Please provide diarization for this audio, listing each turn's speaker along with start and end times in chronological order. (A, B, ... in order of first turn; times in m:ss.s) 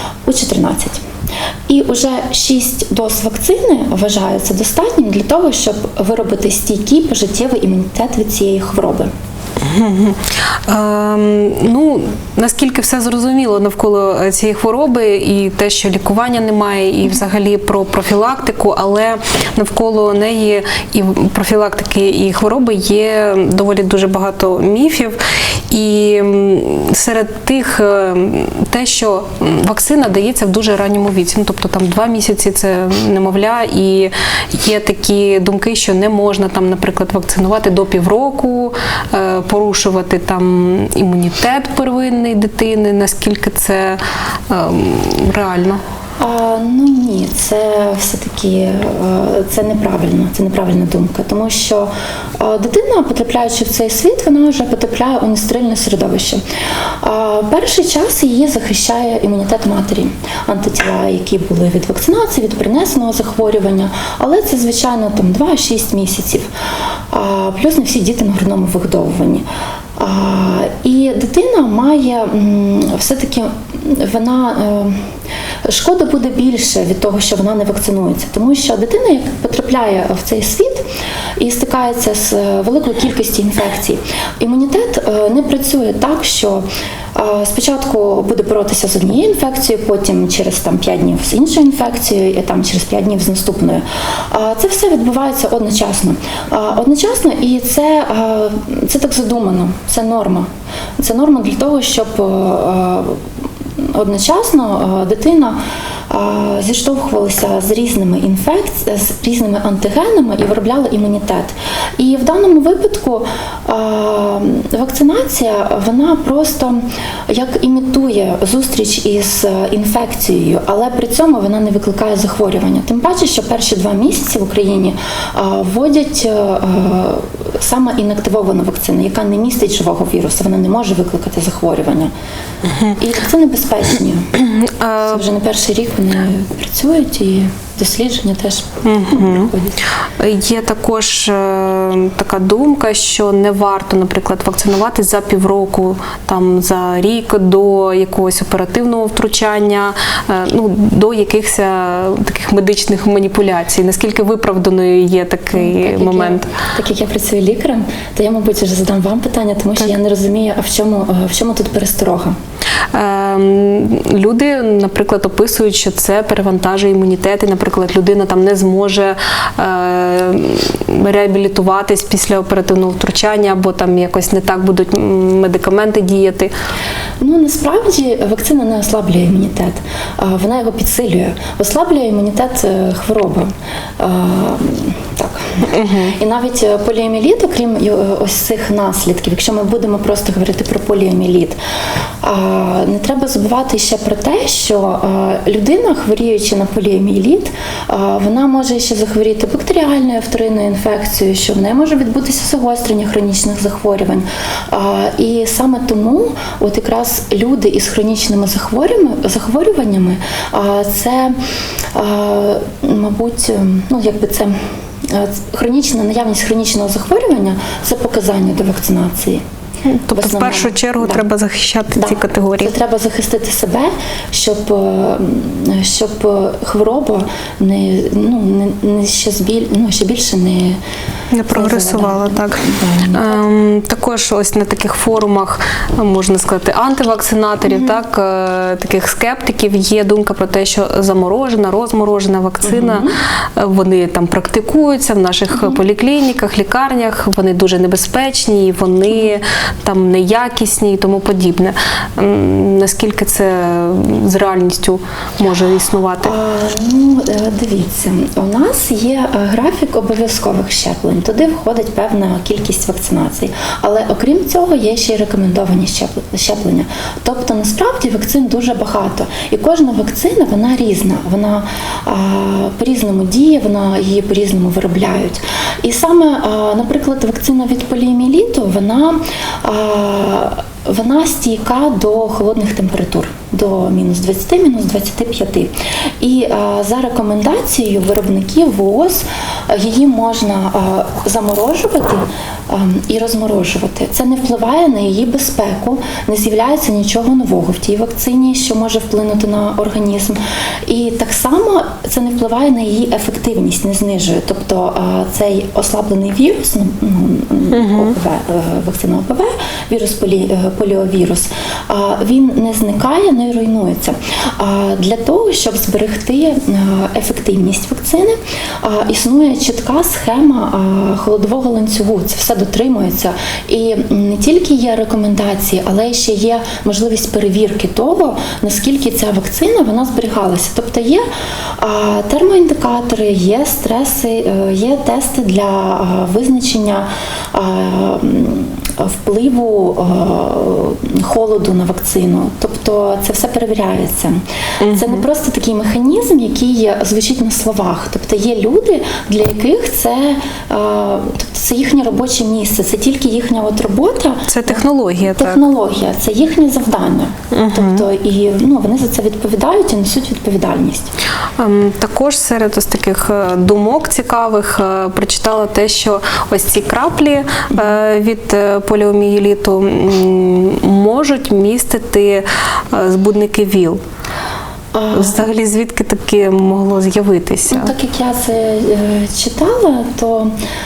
0:00.3-0:01.0 A
0:01.7-0:09.1 A
0:09.6-0:25.2 B
0:25.7-0:45.8 B
0:46.2-0:56.4 A
0:57.0-1:06.5 A
1:07.1-1:09.4 A
1:10.0-1:15.0 A
1:15.6-1:20.9 A
1:21.4-1:40.5 A
1:41.0-1:43.3 A
1:43.8-2:12.1 A
2:12.6-2:13.0 B
2:13.0-2:14.3 A
2:14.3-2:15.2 B
2:15.0-2:19.8 A
2:18.8-2:19.5 B
2:20.2-2:36.5 B
2:35.5-2:42.4 A
2:42.9-2:56.5 B
2:57.2-3:11.6 A
3:05.7-3:06.2 B
3:12.2-3:31.4 A
3:31.9-3:39.4 A
3:39.8-3:42.7 B
3:40.1-3:41.2 A
3:42.0-3:50.8 A
3:51.3-4:16.4 B
3:51.5-3:53.4 A
4:02.6-4:03.2 A
4:05.5-4:05.8 A
4:16.2-5:31.2 A
5:07.7-5:08.2 B
5:31.8-6:01.1 A
5:44.8-5:45.3 B
5:54.5-5:55.6 B
5:57.5-5:58.1 B
6:01.6-6:14.0 B
6:14.9-6:15.4 A
6:15.1-6:17.9 B
6:17.7-6:20.5 A